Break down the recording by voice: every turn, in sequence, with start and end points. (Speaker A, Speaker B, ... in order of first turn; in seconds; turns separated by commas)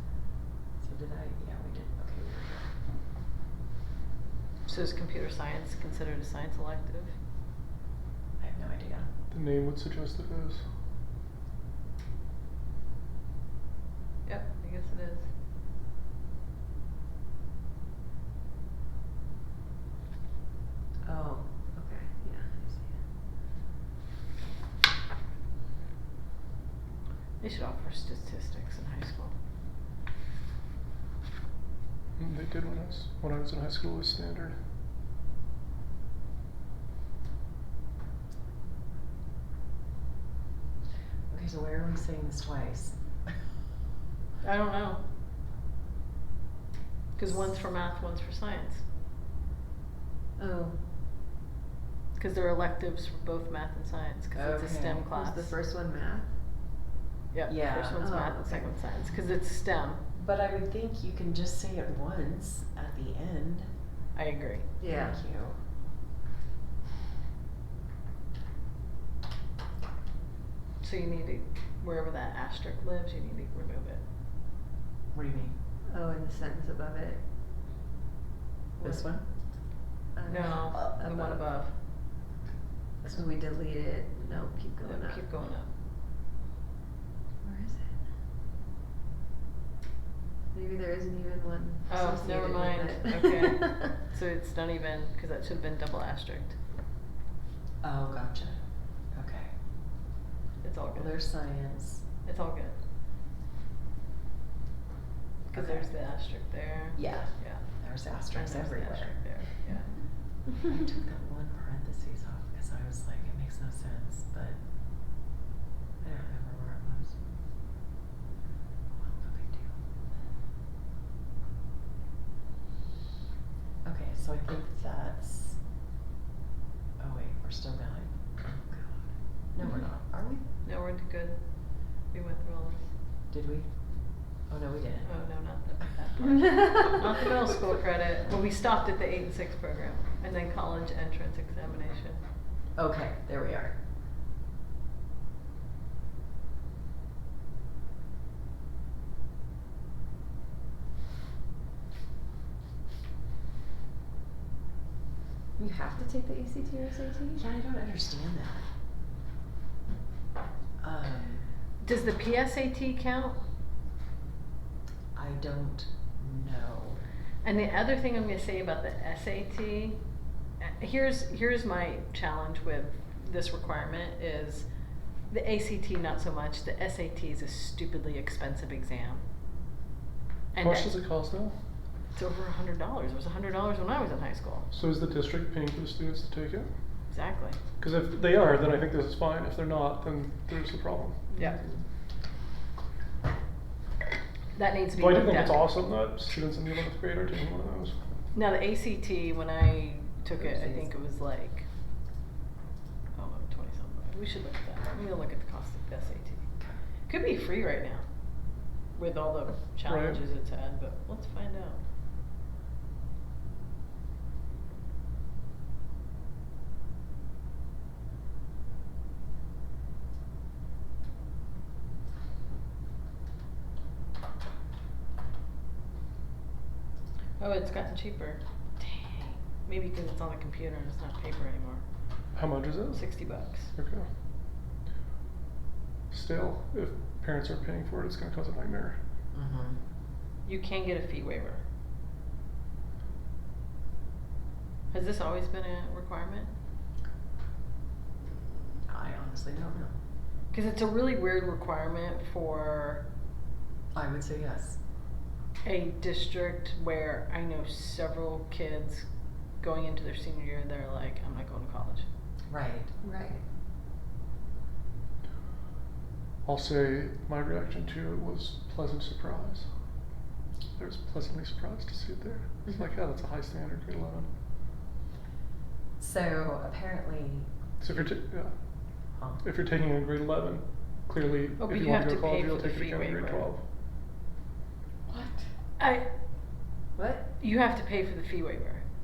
Speaker A: 0.8-2.7, Speaker B: 4.6-7.1, Speaker A: 8.4-9.1, Speaker C: 9.3-10.6, Speaker B: 14.2-15.2, Speaker D: 21.0-22.9, Speaker B: 27.4-29.3, Speaker C: 32.2-34.6, Speaker A: 41.3-43.3, Speaker B: 44.4-45.0, Speaker B: 47.1-48.8, Speaker D: 50.4-50.8, Speaker B: 52.1-55.5, Speaker A: 54.3-55.0, Speaker D: 55.1-56.3, Speaker B: 57.3-60.0, Speaker A: 57.5-58.1, Speaker D: 58.0-58.8, Speaker A: 60.1-63.7, Speaker B: 64.1-64.7, Speaker D: 64.8-65.2, Speaker A: 64.9-65.6, Speaker B: 70.8-74.0, Speaker A: 75.1-75.5, Speaker D: 75.9-77.2, Speaker D: 78.8-79.1, Speaker A: 78.8-79.3, Speaker D: 80.1-81.3, Speaker B: 80.3-81.7, Speaker A: 80.7-81.4, Speaker D: 83.0-85.2, Speaker B: 84.8-85.7, Speaker D: 87.4-88.0, Speaker D: 90.5-93.9, Speaker B: 91.9-96.5, Speaker A: 97.8-98.6, Speaker A: 99.1-99.5, Speaker B: 100.6-101.2, Speaker A: 101.0-102.0, Speaker B: 102.2-102.8, Speaker B: 105.5-107.7, Speaker A: 105.5-105.9, Speaker A: 106.9-109.2, Speaker B: 108.3-110.0, Speaker A: 110.5-114.6, Speaker A: 116.0-117.2, Speaker A: 118.9-119.7, Speaker A: 123.8-125.6, Speaker A: 127.0-130.4, Speaker B: 130.6-132.8, Speaker A: 133.3-135.1, Speaker B: 135.0-142.2, Speaker A: 142.7-143.8, Speaker D: 155.6-157.4, Speaker A: 157.3-158.6, Speaker A: 160.8-161.5, Speaker B: 161.8-163.4, Speaker A: 165.1-167.0, Speaker B: 167.4-170.0, Speaker B: 170.6-174.7, Speaker B: 175.3-179.2, Speaker B: 180.5-180.9, Speaker C: 180.6-181.6, Speaker B: 182.1-184.7, Speaker C: 184.7-186.7, Speaker B: 187.1-187.6, Speaker C: 187.8-191.3, Speaker B: 191.3-191.6, Speaker B: 194.5-195.7, Speaker C: 194.9-197.9, Speaker B: 198.3-201.7, Speaker D: 200.3-200.8, Speaker B: 203.1-206.4, Speaker B: 207.1-208.0, Speaker B: 208.9-211.8, Speaker C: 209.8-210.2, Speaker B: 227.4-231.8, Speaker C: 232.3-234.1, Speaker B: 232.9-233.7, Speaker C: 236.1-239.0, Speaker A: 239.3-239.8, Speaker B: 240.4-241.6, Speaker B: 244.9-246.5, Speaker A: 248.8-249.9, Speaker B: 250.5-253.0, Speaker A: 253.9-254.8, Speaker B: 255.6-259.1, Speaker B: 259.6-262.0, Speaker A: 262.5-262.9, Speaker D: 263.0-263.4, Speaker C: 266.4-269.7, Speaker C: 270.8-274.3, Speaker A: 276.0-277.5, Speaker C: 277.8-283.6, Speaker A: 279.2-279.4, Speaker B: 281.6-283.5, Speaker A: 285.1-285.4, Speaker B: 285.8-286.1, Speaker D: 286.9-287.2, Speaker B: 287.4-288.8